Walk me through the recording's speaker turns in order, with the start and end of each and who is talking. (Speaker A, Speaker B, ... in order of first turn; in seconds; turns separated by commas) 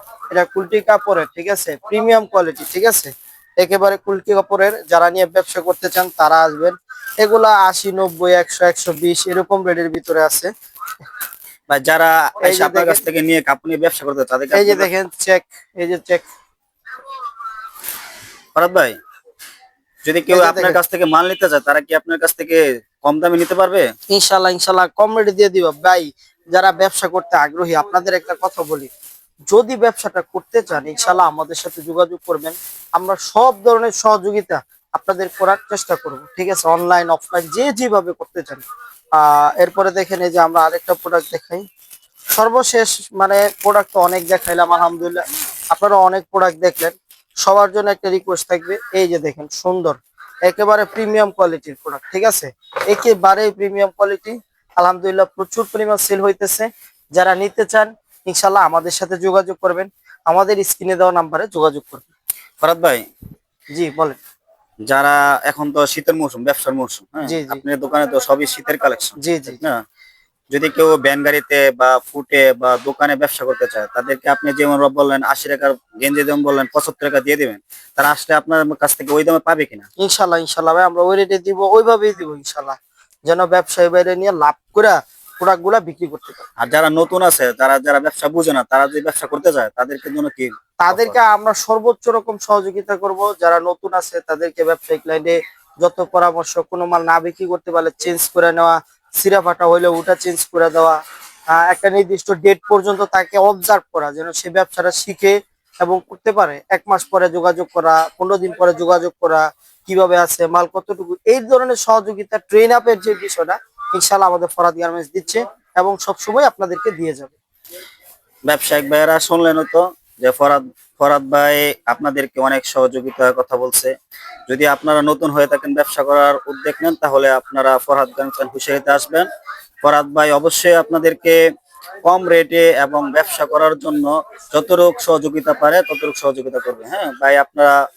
Speaker A: 0.3-10.5, Speaker B: 11.7-14.9, Speaker A: 12.4-13.0, Speaker A: 14.5-16.2, Speaker B: 18.6-19.0, Speaker B: 20.0-23.9, Speaker A: 20.3-20.8, Speaker A: 24.1-28.9, Speaker A: 29.5-38.6, Speaker A: 39.2-41.6, Speaker A: 42.3-62.1, Speaker B: 62.6-63.1, Speaker A: 63.7-64.2, Speaker B: 64.9-69.8, Speaker A: 67.2-67.6, Speaker A: 69.2-69.6, Speaker B: 70.5-79.9, Speaker A: 80.0-86.5, Speaker B: 86.6-91.2, Speaker A: 90.8-101.0, Speaker A: 101.5-117.3, Speaker B: 118.5-123.9, Speaker B: 124.5-129.3, Speaker B: 129.8-131.4, Speaker B: 132.0-137.7